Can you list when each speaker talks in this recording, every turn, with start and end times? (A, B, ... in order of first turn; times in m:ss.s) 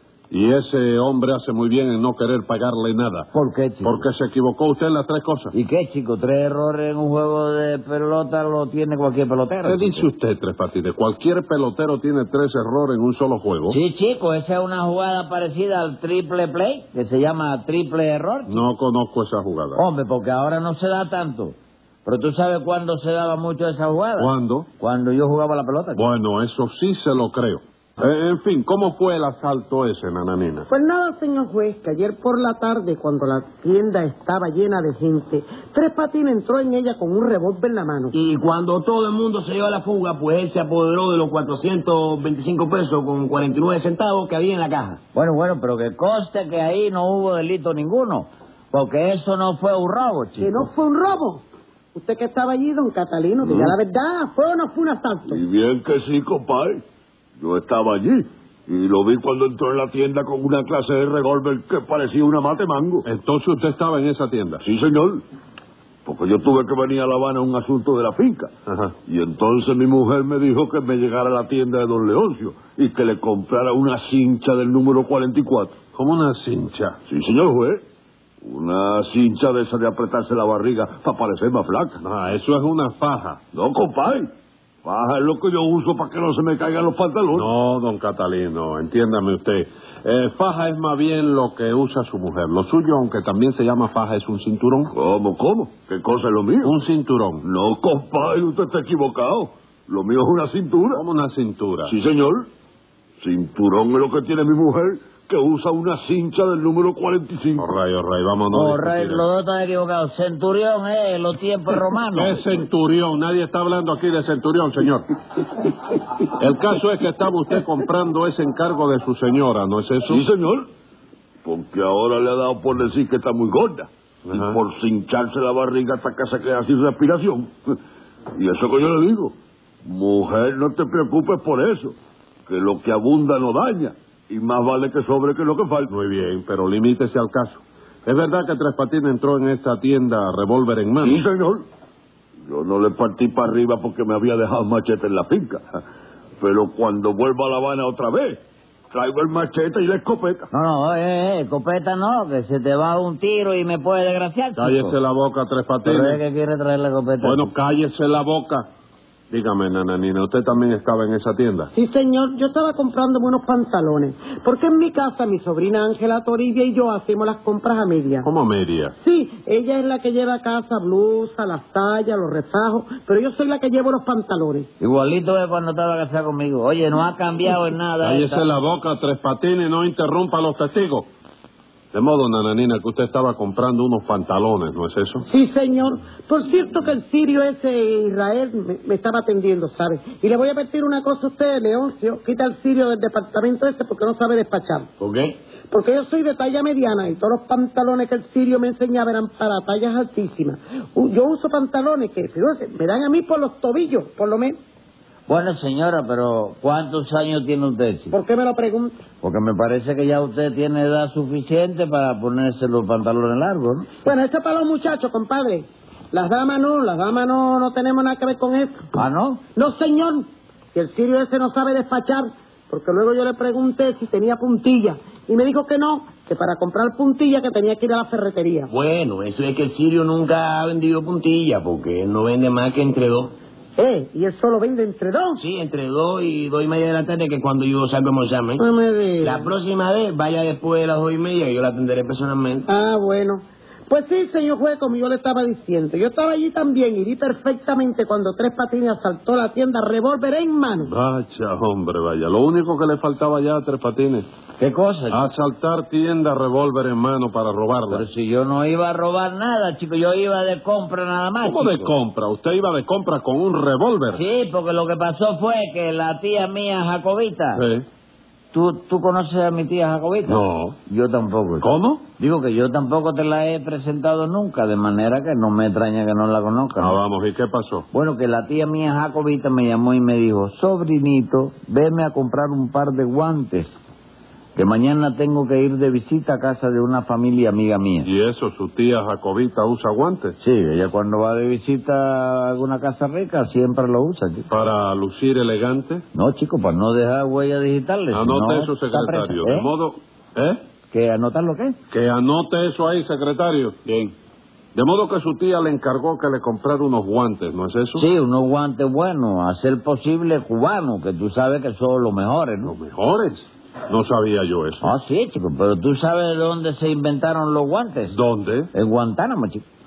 0:00.3-0:03.3 A
0:03.3-0:04.1 B
0:03.8-0:05.5 A
0:05.5-0:10.1 B
0:09.6-0:13.8 A
0:13.7-0:18.6 B
0:18.5-0:19.8 A
0:19.7-0:26.0 B
0:24.2-0:24.7 A
0:25.9-0:30.7 A
0:30.7-0:38.1 C
0:38.1-0:45.0 D
0:45.1-0:50.7 B
0:50.4-0:51.4 C
0:51.9-0:55.4 C
0:53.4-0:53.8 E
0:55.3-0:56.8 E
0:57.4-1:03.0 E
1:03.0-1:04.6 A
1:04.6-1:05.2 E
1:06.0-1:08.5 E
1:08.7-1:08.9 A
1:09.0-1:15.7 E
1:15.9-1:17.0 A
1:17.1-1:17.8 E
1:18.4-1:22.0 E
1:22.0-1:23.4 A
1:23.5-1:24.3 E
1:24.8-1:27.5 E
1:27.3-1:34.9 A
1:34.9-1:36.8 E
1:36.6-1:37.4 A
1:37.4-1:41.0 E
1:40.9-1:41.9 A
1:41.8-1:42.5 E
1:43.2-1:47.7 E
1:47.6-1:49.2 A
1:48.5-1:52.4 B
1:52.1-1:55.0 A
1:56.4-2:00.2 A
2:00.0-2:00.6 E
2:01.4-2:07.8 E
2:04.3-2:04.6 A
2:08.4-2:12.0 E
2:12.5-2:15.9 E
2:15.9-2:21.2 A
2:21.0-2:21.6 E
2:22.4-2:25.8 E
2:26.4-2:28.4 E
2:28.9-2:30.5 E
2:30.5-2:35.0 B
2:34.6-2:36.2 A
2:35.8-2:37.5 B
2:37.2-2:38.7 A
2:39.3-2:41.7 A
2:41.7-2:48.3 C
2:48.2-2:48.9 A
2:49.0-2:54.7 C
2:54.8-2:58.4 B
2:58.0-3:01.1 A
3:01.9-3:05.2 A
3:05.3-3:14.9 C
3:15.0-3:15.4 D
3:15.7-3:24.6 C
3:25.3-3:28.1 B
3:28.1-3:29.0 C
3:29.2-3:33.9 B
3:34.0-3:38.9 C
3:39.0-3:39.4 B
3:39.5-3:48.7 C
3:48.7-3:53.3 D
3:53.8-3:55.4 C
3:55.4-3:58.6 D
3:58.6-3:59.5 C
3:59.2-4:02.7 D
4:02.7-4:10.9 C
4:10.8-4:14.2 A
4:14.6-4:15.3 B
4:15.1-4:18.0 A
4:17.9-4:21.9 B
4:21.4-4:24.2 A
4:24.1-4:27.6 B
4:27.5-4:27.8 A
4:28.5-4:37.0 B
4:30.3-4:30.8 A
4:31.6-4:32.0 A
4:36.8-4:37.8 A
4:37.9-4:43.7 B
4:44.5-4:48.1 B
4:48.0-4:50.3 A
4:50.4-4:54.5 B
4:54.5-4:56.0 A
4:56.1-4:59.7 B
4:58.1-5:00.6 A
5:00.9-5:01.8 B
5:01.9-5:03.8 A
5:04.7-5:08.0 A
5:08.0-5:12.7 B
5:12.6-5:14.9 A
5:14.8-5:18.2 B
5:18.1-5:18.7 A
5:18.7-5:19.6 B